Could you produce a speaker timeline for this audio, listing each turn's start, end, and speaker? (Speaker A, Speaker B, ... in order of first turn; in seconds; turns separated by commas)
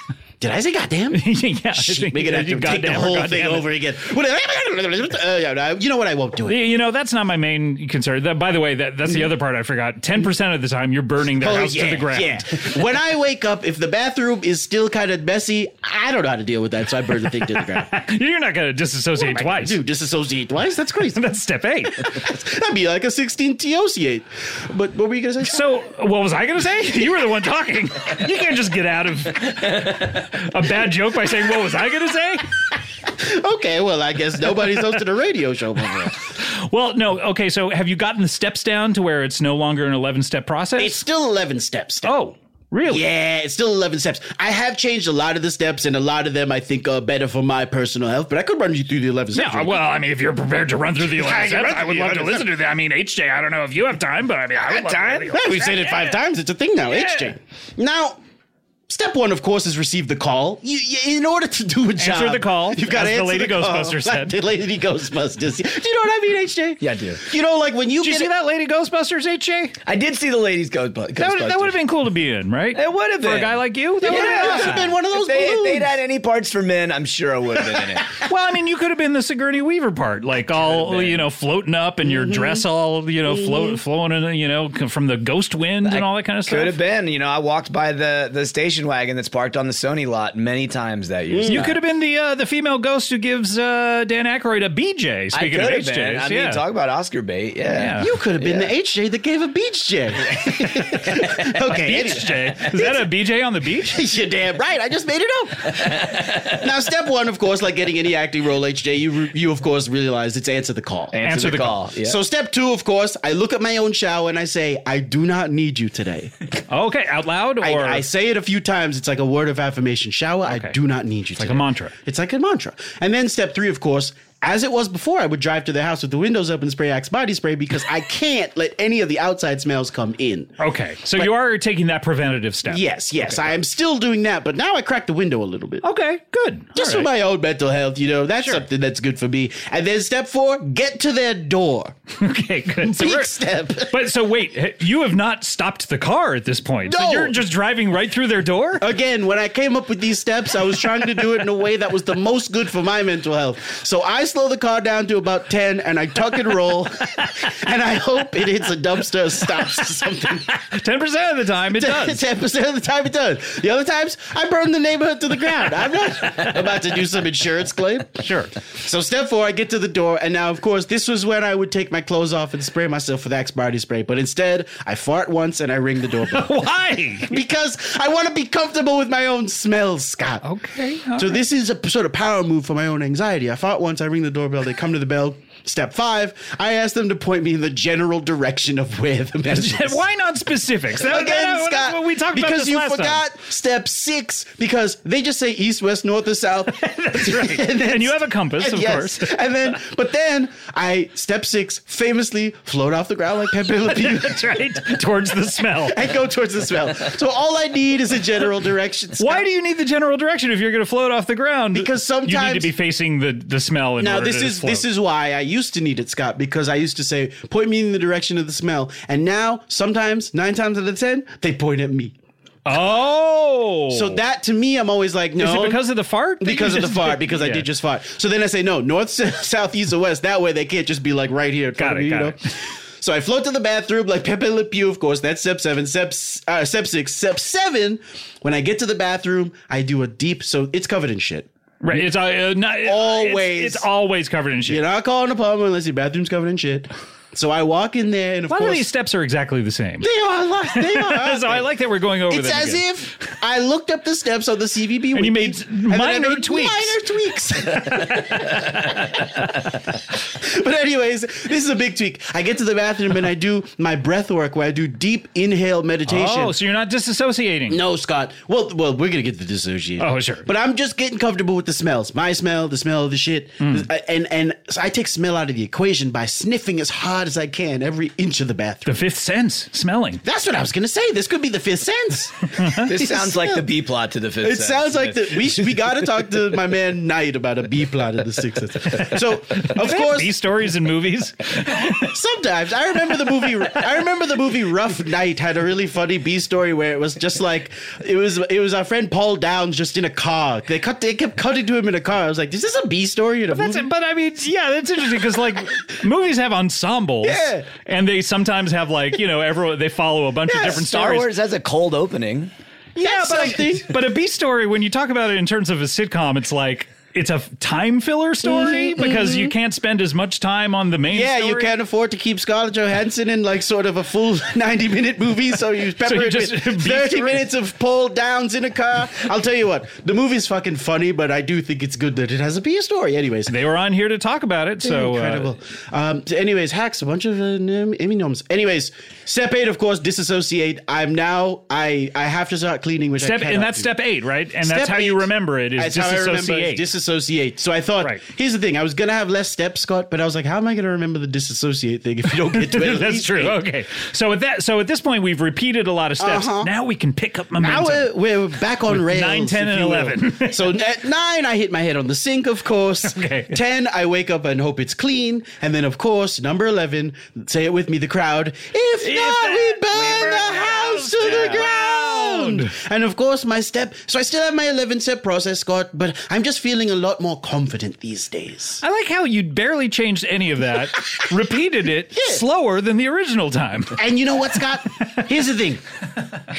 Speaker A: 0.4-6.6, Speaker B: 1.1-3.6, Speaker B: 6.5-12.5, Speaker A: 11.4-17.9, Speaker B: 17.8-19.8, Speaker A: 19.2-21.2, Speaker B: 21.1-22.1, Speaker A: 22.0-25.6, Speaker B: 25.4-32.5, Speaker A: 33.1-36.2, Speaker B: 36.4-41.0, Speaker A: 40.8-42.1, Speaker B: 42.0-43.0, Speaker A: 42.9-49.8, Speaker B: 49.4-56.1, Speaker A: 51.0-52.5, Speaker A: 54.8-58.2, Speaker B: 56.9-57.3, Speaker A: 58.9-68.3, Speaker B: 62.0-64.3, Speaker C: 66.8-67.2, Speaker B: 68.0-69.8, Speaker C: 69.9-71.8, Speaker B: 71.2-74.9, Speaker C: 72.7-78.1, Speaker A: 74.0-75.9, Speaker B: 78.2-86.8, Speaker C: 80.5-81.3, Speaker A: 82.1-82.6, Speaker A: 83.5-83.7, Speaker C: 85.8-91.8, Speaker A: 91.3-91.7, Speaker B: 91.5-96.6, Speaker C: 95.3-98.7, Speaker B: 97.8-98.1, Speaker A: 98.0-103.1, Speaker C: 100.3-100.5, Speaker B: 101.7-104.0, Speaker A: 103.9-111.2, Speaker C: 105.9-106.4, Speaker C: 111.1-112.2, Speaker B: 111.2-111.8, Speaker A: 112.0-116.3, Speaker B: 116.7-118.0, Speaker A: 117.6-130.6, Speaker B: 120.5-120.8, Speaker B: 121.4-121.9, Speaker B: 130.6-133.5, Speaker A: 132.7-135.8, Speaker B: 135.8-137.1, Speaker A: 136.8-142.0, Speaker B: 142.2-143.3, Speaker A: 142.8-144.0, Speaker B: 143.9-148.8, Speaker A: 146.9-147.4, Speaker A: 148.8-160.5, Speaker B: 160.5-162.2, Speaker A: 161.7-176.6, Speaker B: 168.2-168.5, Speaker B: 176.3-177.3, Speaker A: 177.3-180.5, Speaker B: 180.4-181.4, Speaker A: 181.2-190.0, Speaker B: 189.5-193.2, Speaker A: 190.9-204.8, Speaker B: 196.7-199.3, Speaker B: 203.8-206.0, Speaker A: 205.8-209.5, Speaker B: 209.2-214.9, Speaker A: 211.7-212.7, Speaker A: 214.0-222.1, Speaker B: 222.7-224.2, Speaker A: 223.9-225.8, Speaker B: 225.4-227.7, Speaker A: 226.4-232.5, Speaker B: 231.8-232.4, Speaker A: 233.0-241.5, Speaker B: 241.8-244.8, Speaker A: 242.8-243.9, Speaker A: 244.7-248.9, Speaker B: 248.5-250.1, Speaker A: 250.0-251.7, Speaker B: 250.7-252.8, Speaker A: 252.3-259.5, Speaker B: 255.1-257.0, Speaker B: 257.7-258.9, Speaker A: 260.4-266.6, Speaker B: 266.1-267.8, Speaker A: 267.7-279.0, Speaker B: 270.0-270.5, Speaker B: 273.6-273.9, Speaker B: 278.9-280.2, Speaker A: 280.2-283.7, Speaker B: 282.6-282.8, Speaker C: 282.9-285.8, Speaker A: 284.4-290.4, Speaker B: 289.6-292.1, Speaker A: 292.0-303.9, Speaker B: 303.5-311.3, Speaker A: 307.2-307.7, Speaker C: 310.5-312.5, Speaker B: 313.0-321.7, Speaker A: 313.0-314.0, Speaker A: 318.4-319.5, Speaker A: 321.1-333.5, Speaker B: 326.1-327.4, Speaker B: 333.5-335.5, Speaker A: 334.8-343.9, Speaker B: 343.2-346.8, Speaker A: 344.6-353.6, Speaker B: 352.5-358.1, Speaker A: 356.2-356.7, Speaker A: 357.6-378.8, Speaker B: 358.9-360.7, Speaker B: 363.0-363.6, Speaker B: 369.0-372.7, Speaker B: 378.8-384.0, Speaker A: 382.1-382.4, Speaker A: 384.0-385.8